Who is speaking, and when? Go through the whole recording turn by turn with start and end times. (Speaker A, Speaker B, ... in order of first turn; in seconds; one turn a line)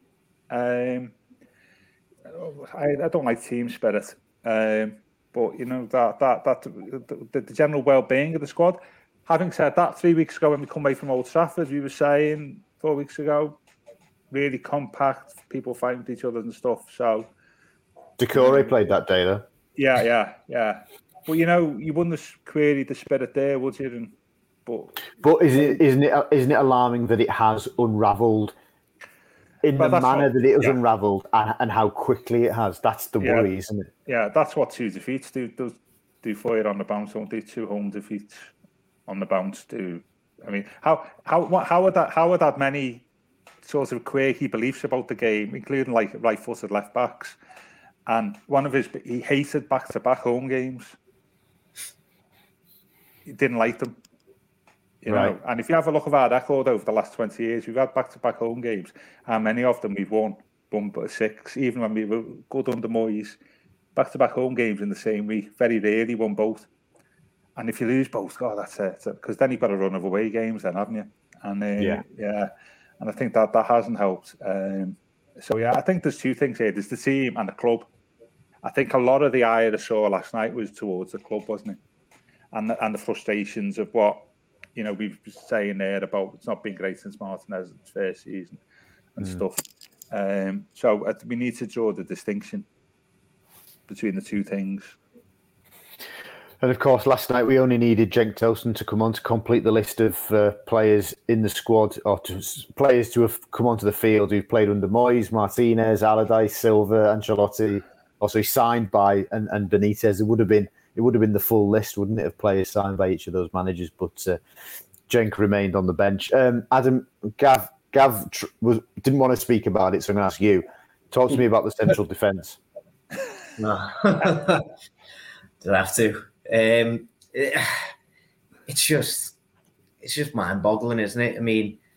Speaker A: 0.5-1.1
Speaker A: 2.3-13.6
Speaker A: 14.3-17.3
Speaker B: 18.2-19.4
Speaker A: 18.3-18.7
Speaker A: 19.8-24.1
Speaker A: 24.7-25.0
Speaker B: 25.2-28.6
Speaker B: 29.6-33.9
Speaker A: 29.8-30.8
Speaker A: 33.2-33.5
Speaker A: 34.1-38.5
Speaker A: 39.1-43.0
Speaker A: 43.6-47.4
Speaker A: 48.1-51.0
Speaker A: 53.3-54.0
Speaker A: 55.0-63.4
Speaker B: 55.1-55.4
Speaker A: 64.0-66.7
Speaker A: 67.6-77.9
Speaker B: 71.8-72.0
Speaker A: 78.6-81.8
Speaker A: 82.5-88.6
Speaker A: 89.2-92.7
Speaker A: 93.9-95.0
Speaker B: 96.6-114.4
Speaker B: 115.1-122.6
Speaker C: 123.6-124.7
Speaker C: 125.6-127.9
Speaker C: 128.7-129.3
Speaker C: 130.0-131.8